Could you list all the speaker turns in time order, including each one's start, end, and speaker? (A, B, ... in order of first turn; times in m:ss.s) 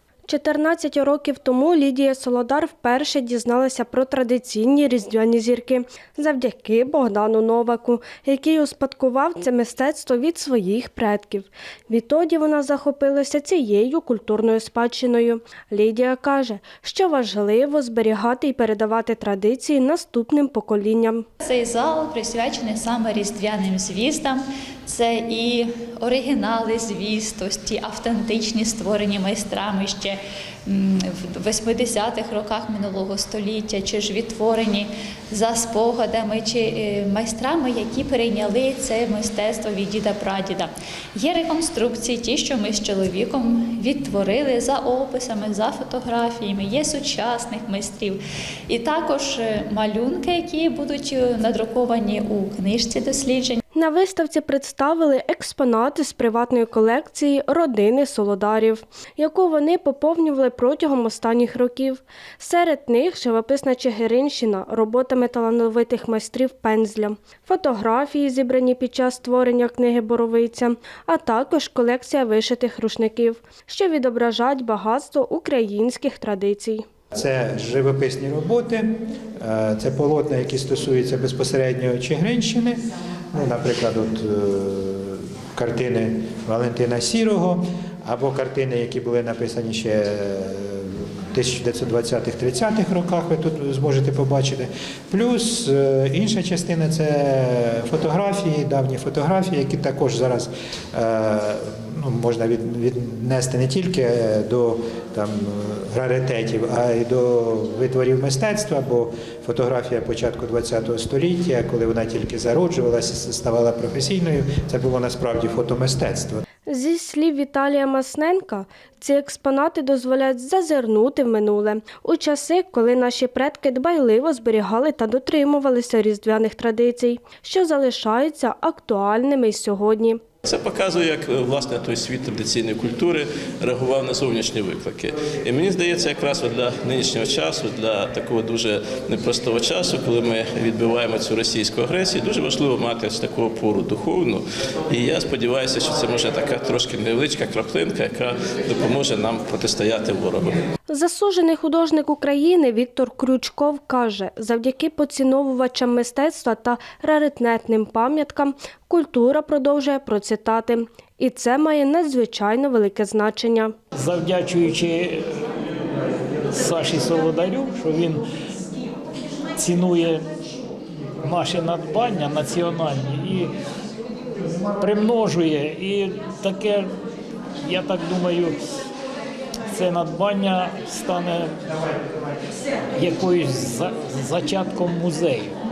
0:00.2-0:21.2 A
0:21.4-0:53.6 B
0:53.7-1:16.8 A
1:17.1-1:22.8 C
1:23.3-1:56.4 C
1:56.6-2:10.2 A
2:10.4-2:30.6 D
2:30.9-2:43.7 A
2:44.0-2:45.2 E
2:46.5-2:48.2 E
2:49.6-2:50.2 E
2:51.2-2:53.5 E
2:54.7-2:56.9 E
2:57.6-2:58.5 E
2:59.7-3:01.5 E
3:02.9-3:05.6 E